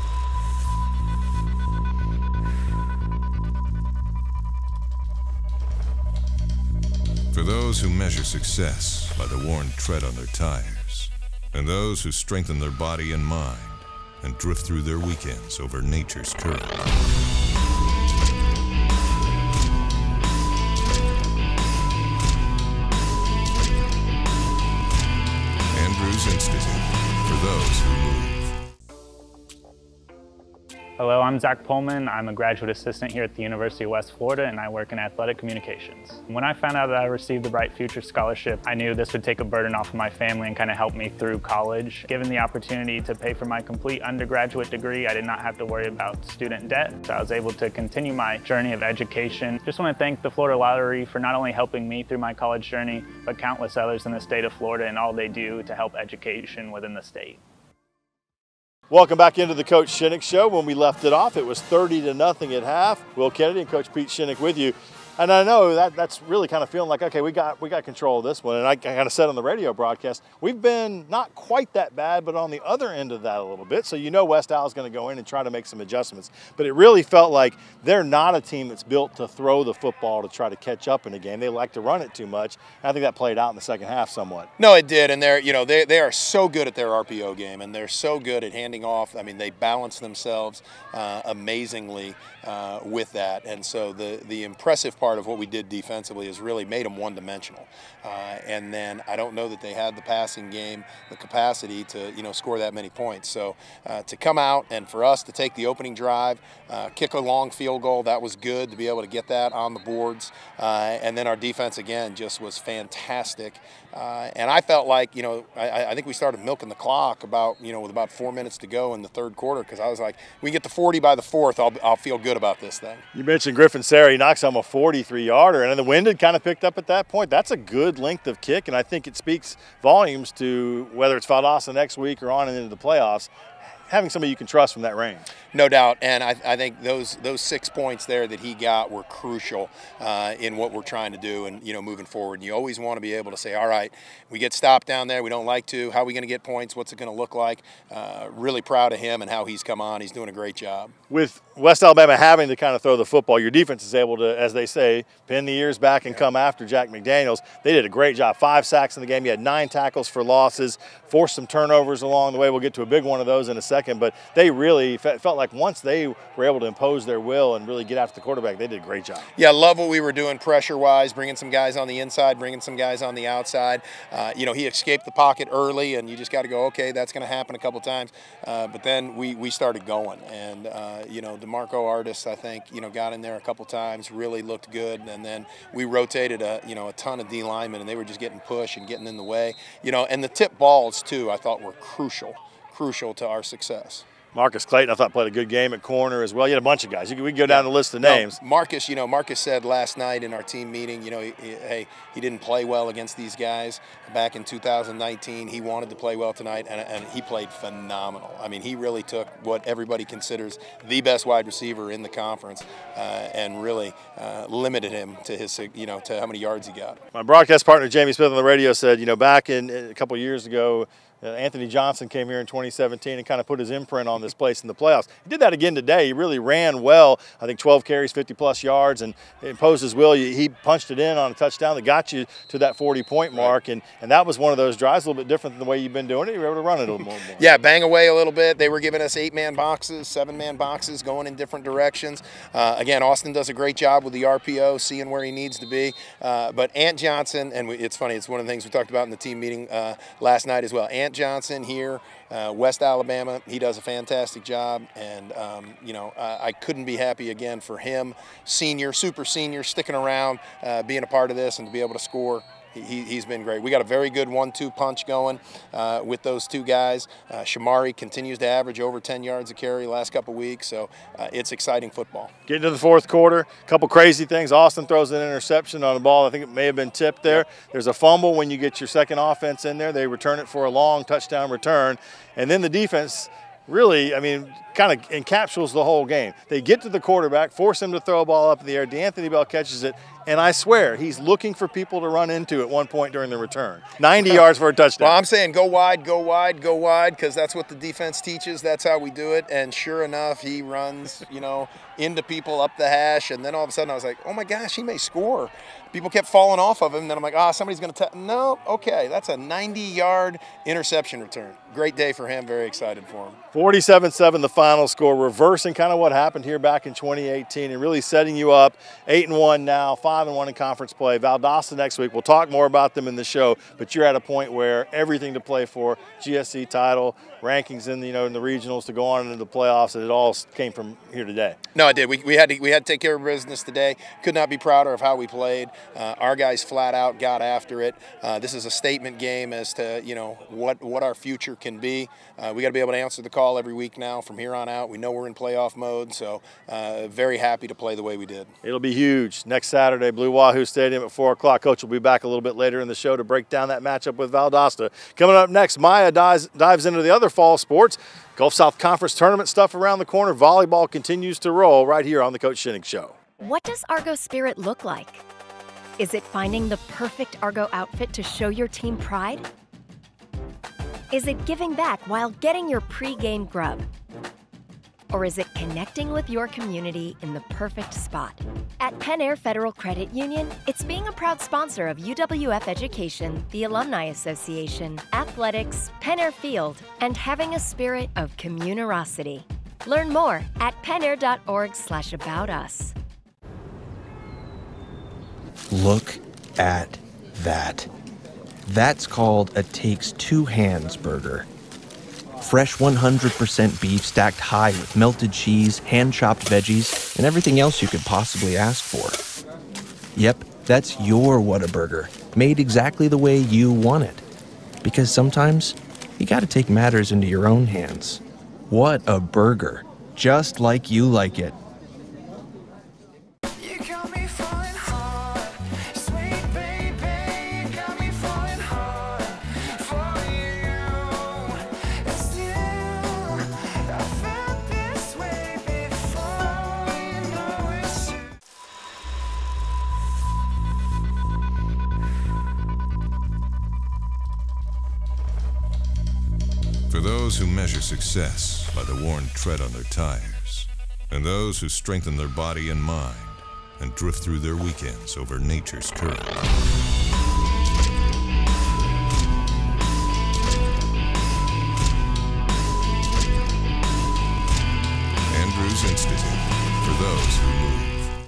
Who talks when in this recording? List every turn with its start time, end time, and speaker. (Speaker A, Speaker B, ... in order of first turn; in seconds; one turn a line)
Speaker A: 7.3-16.9
Speaker A: 25.7-28.5
Speaker B: 31.0-57.4
Speaker C: 58.9-84.5
Speaker D: 84.6-123.0
Speaker C: 123.1-133.3
Speaker C: 133.9-135.2
Speaker D: 135.5-150.9
Speaker C: 151.1-169.3
Speaker D: 169.3-194.1
Speaker C: 194.3-198.4
Speaker D: 197.5-217.0
Speaker C: 217.1-237.4
Speaker D: 237.4-272.3
Speaker C: 272.5-295.1
Speaker D: 295.0-313.4
Speaker C: 313.5-331.6
Speaker D: 331.7-348.5
Speaker C: 348.6-363.2
Speaker E: 363.4-365.2
Speaker E: 366.0-369.4
Speaker E: 371.1-373.8
Speaker E: 375.1-392.9
Speaker F: 395.7-397.9
Speaker F: 398.6-401.5
Speaker F: 402.4-409.2
Speaker F: 410.1-414.2
Speaker F: 414.8-421.6
Speaker A: 446.9-456.4
Speaker A: 465.3-468.1